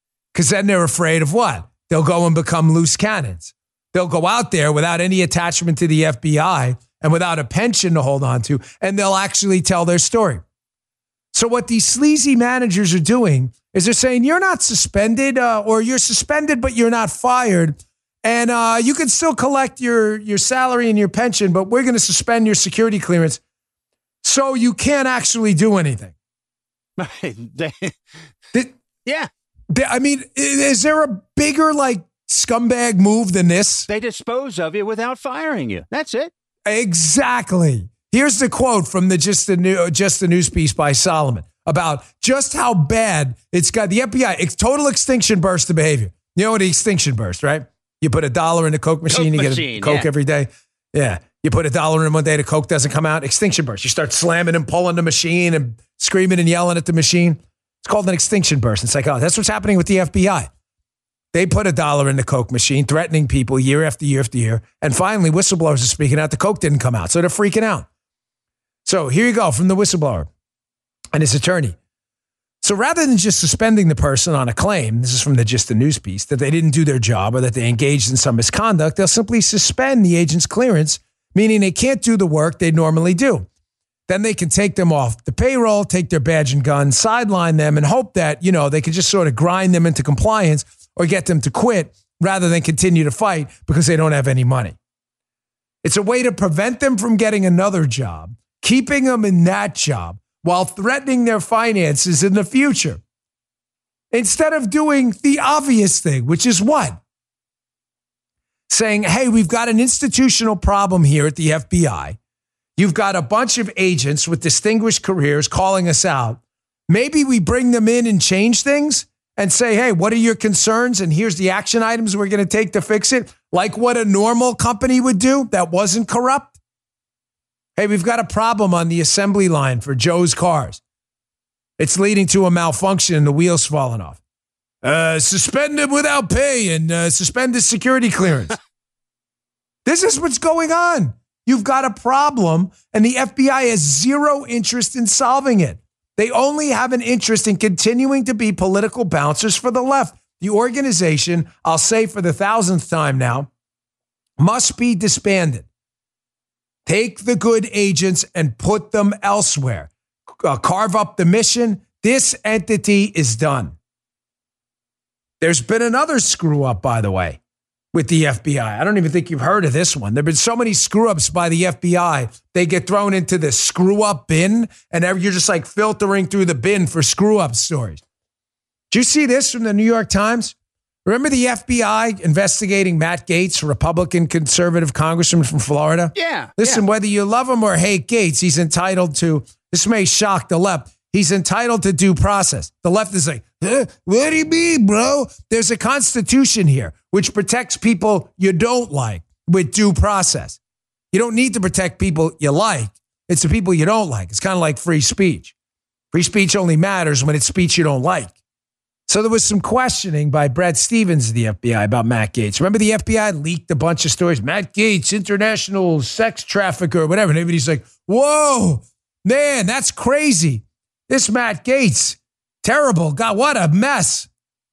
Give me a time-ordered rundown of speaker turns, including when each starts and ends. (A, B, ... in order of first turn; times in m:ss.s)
0:00.3-0:10.4 A
0:11.3-0:23.4 A
0:24.2-0:26.1 A
0:27.0-0:28.0 B
0:29.7-0:33.9 A
0:33.9-0:36.3 B
0:36.6-1:00.5 A
0:49.1-0:50.1 B
1:01.3-1:07.8 A
1:08.8-1:10.3 A
1:11.1-1:11.8 A
1:12.6-1:23.5 A
1:24.1-1:34.8 A
1:35.8-1:43.0 A
1:44.1-1:47.0 A
1:48.7-1:52.2 A
1:52.8-2:06.5 A
2:07.8-2:10.8 A
2:11.8-2:14.2 A
2:14.8-2:18.6 A
2:19.8-2:33.5 A
2:34.4-2:35.7 A
2:36.8-2:39.9 A
2:40.4-2:43.8 A
2:45.4-2:47.4 A
2:47.9-2:58.0 A
2:58.9-3:20.6 A
3:06.2-3:06.8 B
3:21.1-3:25.5 A
3:26.1-3:28.3 A
3:29.1-3:44.3 A